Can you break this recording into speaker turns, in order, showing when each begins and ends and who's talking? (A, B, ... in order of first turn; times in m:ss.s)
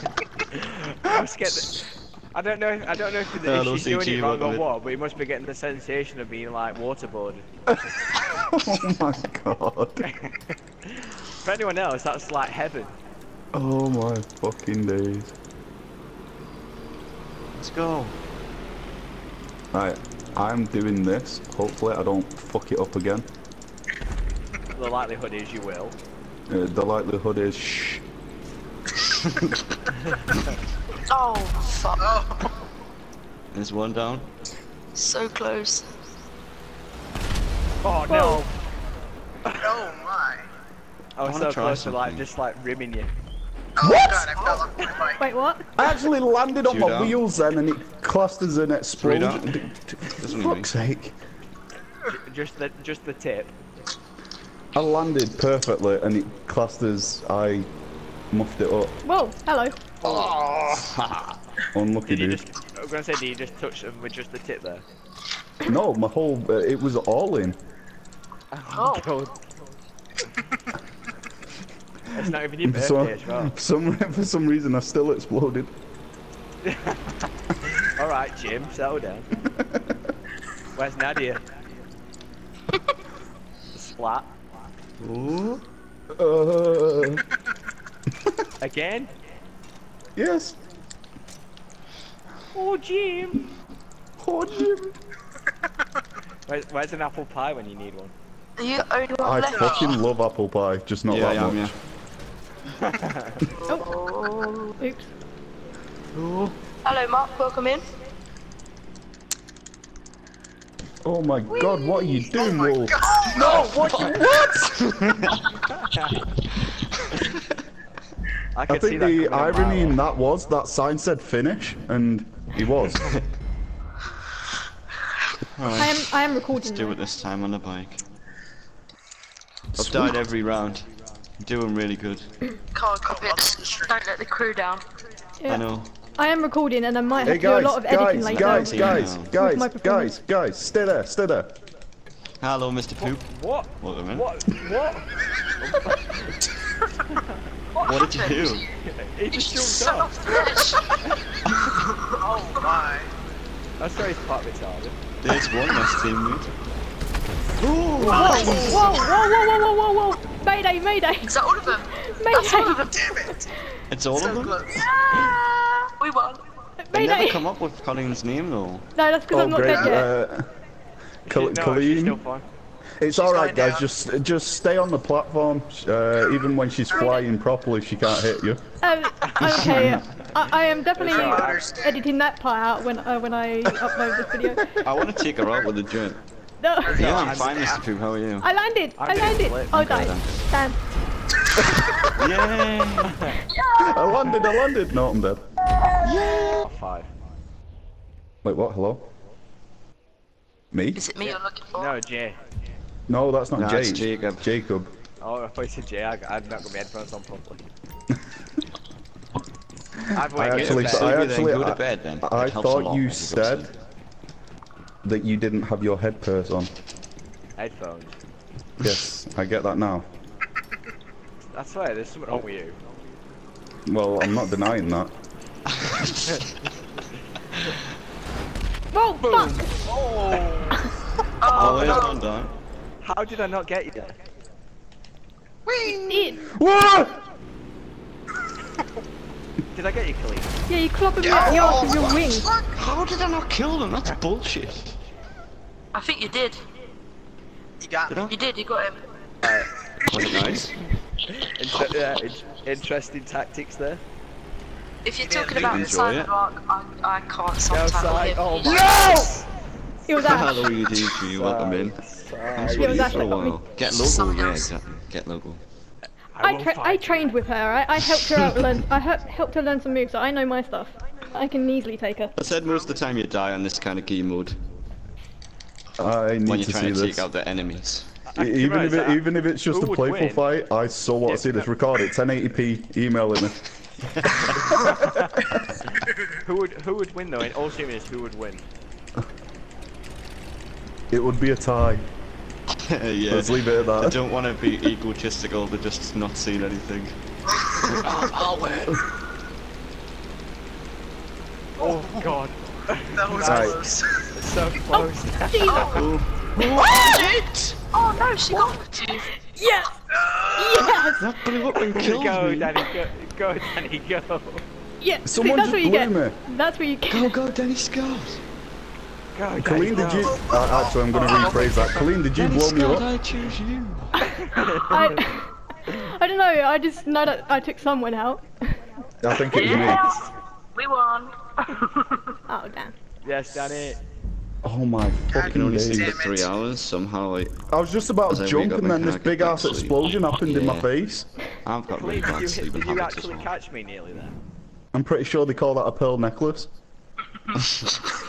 0:00.5-0:07.4 A
0:03.4-0:04.7 B
0:07.7-0:10.0 C
0:10.0-0:12.9 A
0:13.5-0:15.3 C
0:17.6-0:18.2 B
0:19.7-0:23.3 C
0:24.7-0:26.0 A
0:26.5-0:28.0 C
0:30.0-0:30.4 A
0:31.1-0:32.2 D
0:32.0-0:32.5 E
0:33.5-0:34.3 B
0:34.9-0:35.8 D
0:37.8-0:38.5 A
0:38.1-0:38.4 F
0:39.6-0:40.5 E
0:41.2-0:43.1 A
0:41.2-0:42.3 B
0:43.8-0:45.2 E
0:43.8-0:44.4 C
0:45.2-0:45.7 F
0:45.8-0:51.1 C
0:46.6-0:47.2 B
0:49.0-0:50.7 B
0:52.1-0:53.5 A
0:54.7-0:57.7 C
0:58.3-0:59.0 C
0:59.0-1:00.0 F
1:00.0-1:01.4 B
1:00.0-1:00.6 E
1:01.7-1:02.4 C
1:02.1-1:04.8 A
1:05.6-1:07.6 C
1:08.5-1:09.4 A
1:08.7-1:09.1 D
1:12.1-1:13.5 A
1:12.6-1:15.7 C
1:16.6-1:19.3 A
1:20.7-1:21.4 A
1:23.7-1:24.3 A
1:25.0-1:25.6 B
1:26.1-1:27.2 C
1:28.6-1:29.1 A
1:30.2-1:30.6 C
1:32.5-1:33.4 A
1:34.2-1:34.9 C
1:36.5-1:38.1 A
1:38.6-1:40.0 D
1:39.2-1:41.7 C
1:39.5-1:39.9 E
1:41.1-1:41.7 B
1:42.8-1:43.4 A
1:43.6-1:44.8 D
1:44.8-1:45.1 F
1:46.1-1:46.6 B
1:46.8-1:47.8 D
1:51.0-1:54.8 C
1:51.5-1:52.3 D
1:52.3-1:53.6 E
1:53.4-1:53.8 D
1:54.8-1:55.4 B
1:58.5-2:00.0 A
1:58.7-2:03.1 C
2:05.5-2:08.0 B
2:05.7-2:07.0 F
2:09.7-2:10.2 C
2:09.8-2:12.4 B
2:12.7-2:14.8 D
2:13.0-2:14.0 E
2:15.4-2:20.1 F
2:15.5-2:15.9 B
2:17.2-2:21.5 C
2:18.1-2:19.4 B
2:22.4-2:24.3 B
2:23.0-2:26.4 A
2:27.7-2:28.6 D
2:27.8-2:28.6 B
2:28.8-2:30.1 A
2:29.3-2:30.9 D
2:31.1-2:31.4 A
2:31.6-2:32.6 D
2:32.2-2:33.1 E
2:33.8-2:35.0 A
2:35.2-2:36.5 B
2:37.6-2:38.9 B
2:38.0-2:39.2 E
2:38.0-2:42.9 F
2:38.2-2:38.7 D
2:41.2-2:43.1 D
2:42.9-2:43.5 E
2:43.9-2:44.7 B
2:44.1-2:44.8 E
2:44.7-2:46.4 D
2:46.8-2:47.4 F
2:46.9-2:48.9 B
2:48.9-2:50.1 F
2:49.3-2:50.4 C
2:49.6-2:50.0 E
2:51.3-2:52.2 C
2:51.3-2:52.5 A
2:53.0-2:58.6 C
2:53.1-2:53.8 E
2:56.9-2:57.2 E
2:58.8-3:04.8 F
2:59.2-2:59.6 A
2:59.3-3:00.0 C
2:59.6-2:59.9 B
3:01.0-3:01.6 A
3:01.0-3:02.0 E
3:04.6-3:04.8 C
3:04.8-3:06.2 B
3:06.6-3:07.1 F
3:06.8-3:07.5 E
3:06.8-3:07.8 A
3:06.9-3:08.5 B
3:08.4-3:10.8 F
3:09.0-3:09.8 A
3:09.7-3:10.5 B
3:11.7-3:12.1 E
3:12.2-3:13.2 B
3:13.1-3:13.4 A
3:13.5-3:14.3 D
3:13.8-3:15.4 C
3:16.0-3:16.6 B
3:16.6-3:17.1 A
3:18.4-3:19.0 C
3:20.7-3:21.0 C
3:20.9-3:21.9 D
3:21.2-3:22.4 A
3:23.1-3:24.9 C
3:23.6-3:24.5 B
3:25.2-3:27.6 A
3:30.1-3:31.2 A
3:30.2-3:33.7 C
3:30.4-3:33.7 B
3:35.0-3:36.7 C
3:37.6-3:38.2 A
3:38.8-3:40.0 C
3:41.5-3:42.8 A
3:43.8-3:45.1 C
3:45.8-3:46.2 B
3:48.9-3:49.7 F
3:49.2-3:49.6 A
3:49.8-3:50.8 E
3:51.4-3:52.2 D
3:51.5-3:52.5 B
3:51.5-3:52.1 A
3:51.6-3:52.2 E
3:53.0-3:54.1 A
3:55.6-3:56.3 E
3:56.1-3:56.4 F
3:56.4-3:57.2 C
3:59.7-4:00.5 A
4:00.7-4:02.5 F
4:01.2-4:02.8 E
4:02.7-4:05.0 B
4:05.9-4:06.6 D
4:07.8-4:08.3 E
4:08.1-4:08.3 B
4:08.2-4:09.0 D
4:09.4-4:09.7 A
4:10.1-4:10.8 B
4:11.3-4:14.0 A
4:15.0-4:19.2 D
4:15.2-4:15.8 E
4:15.5-4:16.3 B
4:17.7-4:19.4 A
4:18.6-4:19.4 C
4:20.1-4:20.7 F
4:20.1-4:25.6 B
4:21.3-4:23.3 A
4:22.6-4:23.6 F
4:23.8-4:24.7 D
4:26.3-4:27.3 A
4:26.4-4:32.4 F
4:32.4-4:34.6 B
4:36.0-4:37.3 C
4:36.4-4:38.1 B
4:38.3-4:40.4 A
4:38.4-4:43.6 C
4:41.2-4:41.7 A
4:44.1-4:44.8 B
4:44.7-4:45.6 C
4:44.9-4:45.3 A
4:46.4-4:48.6 A
4:51.1-4:52.0 C
4:52.8-4:57.2 B
4:53.3-4:54.2 C
4:57.7-4:59.0 B
5:01.8-5:06.0 A
5:03.1-5:04.3 E
5:03.4-5:03.8 C
5:04.9-5:06.0 F
5:05.6-5:06.1 D
5:05.9-5:07.8 B
5:06.8-5:07.1 F
5:07.0-5:09.3 D
5:09.2-5:10.0 F
5:10.2-5:11.0 E
5:10.5-5:11.3 F
5:11.2-5:12.8 B
5:11.9-5:14.6 A
5:15.0-5:17.4 F
5:15.2-5:16.4 C
5:17.1-5:18.4 B
5:19.3-5:20.4 A
5:19.6-5:23.1 C
5:20.1-5:21.9 E
5:22.3-5:24.2 B
5:24.3-5:28.9 F
5:24.5-5:25.2 A
5:29.2-5:30.0 C
5:29.4-5:32.3 D
5:29.5-5:30.0 F
5:32.5-5:32.9 F
5:33.2-5:34.0 A
5:34.6-5:36.2 C
5:35.3-5:36.5 E
5:35.4-5:37.6 B
5:37.7-5:41.3 C
5:38.2-5:40.9 B
5:41.6-5:43.5 B
5:41.9-5:44.3 A
5:44.9-5:46.7 C